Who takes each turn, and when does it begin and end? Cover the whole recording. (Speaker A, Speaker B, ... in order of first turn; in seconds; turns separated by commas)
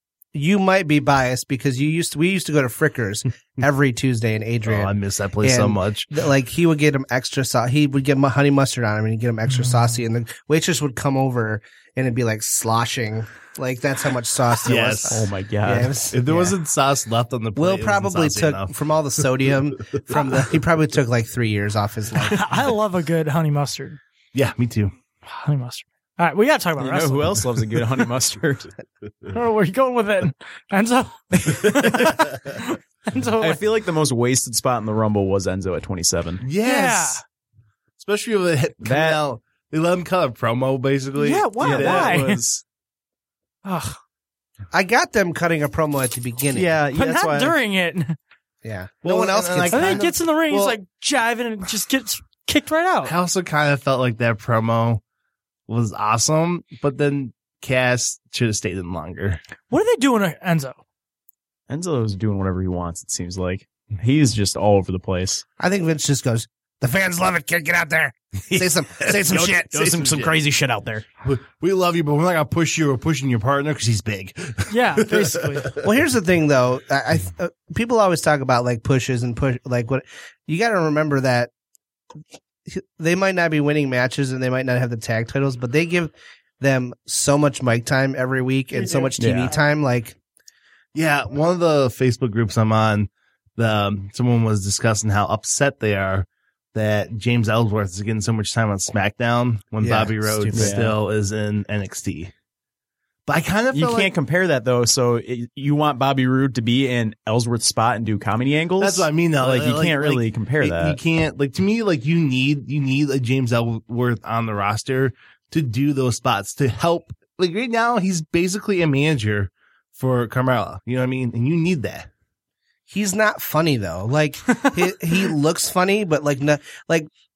Speaker A: 0.3-16.6, Speaker B: 4.7-6.2, Speaker C: 9.5-10.0, Speaker B: 14.7-15.2, Speaker D: 15.0-16.0, Speaker B: 16.1-18.7, Speaker A: 17.6-22.4, Speaker C: 22.2-24.0, Speaker B: 24.3-24.9, Speaker C: 25.3-27.4, Speaker D: 26.8-28.7, Speaker C: 29.3-33.6, Speaker D: 31.4-32.2, Speaker D: 33.4-36.4, Speaker B: 36.4-37.2, Speaker C: 36.6-37.2, Speaker B: 38.0-42.4, Speaker D: 38.8-39.2, Speaker C: 41.2-42.4, Speaker D: 41.2-42.6, Speaker C: 43.6-44.0, Speaker A: 44.7-46.8, Speaker D: 46.5-47.6, Speaker C: 46.9-48.2, Speaker A: 48.6-50.1, Speaker B: 49.0-50.8, Speaker C: 49.7-53.1, Speaker B: 53.0-55.0, Speaker B: 55.7-59.4, Speaker C: 59.7-60.8, Speaker D: 61.7-65.4, Speaker A: 65.6-69.8, Speaker B: 68.5-70.3, Speaker D: 69.5-71.0, Speaker B: 71.2-75.8, Speaker C: 74.7-75.7, Speaker A: 75.8-81.5, Speaker A: 82.7-90.2, Speaker D: 89.2-89.5, Speaker B: 91.0-102.3, Speaker A: 99.8-100.8, Speaker D: 100.5-101.0, Speaker B: 103.3-104.1, Speaker D: 103.7-111.0, Speaker B: 108.8-122.1, Speaker A: 122.9-127.1